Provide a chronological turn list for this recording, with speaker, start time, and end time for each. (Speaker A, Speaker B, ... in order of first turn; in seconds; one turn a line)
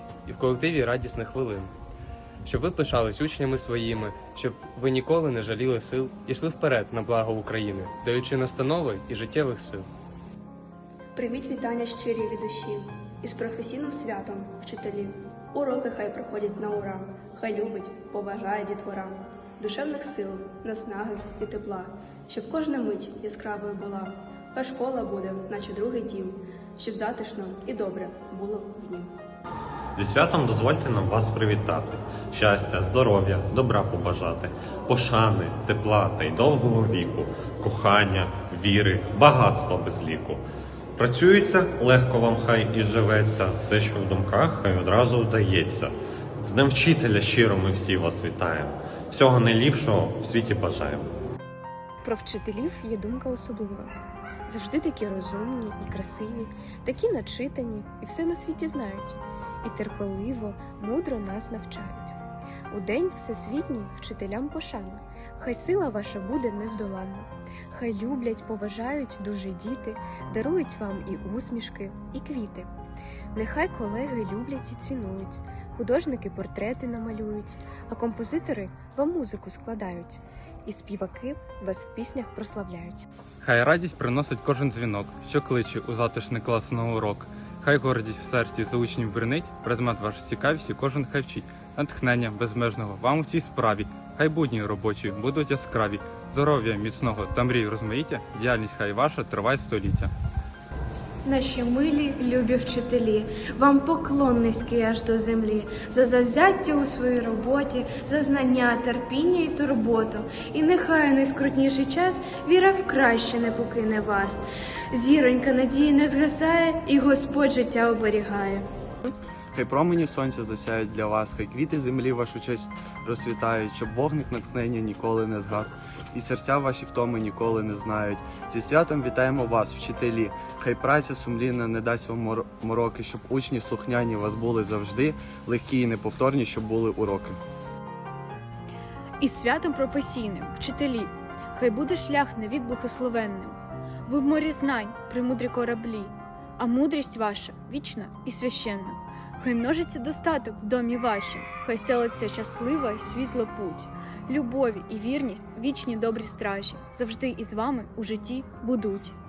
Speaker A: 0.3-1.7
Speaker A: 2.4-9.9
Speaker B: 11.1-29.1
Speaker C: 30.0-40.4
Speaker C: 41.0-51.1
Speaker D: 52.0-53.9
Speaker D: 54.5-62.2
Speaker D: 62.7-72.7
Speaker D: 73.3-83.0
Speaker E: 83.4-100.1
Speaker F: 101.2-118.7
Speaker G: 119.1-137.4
Speaker H: 139.2-159.2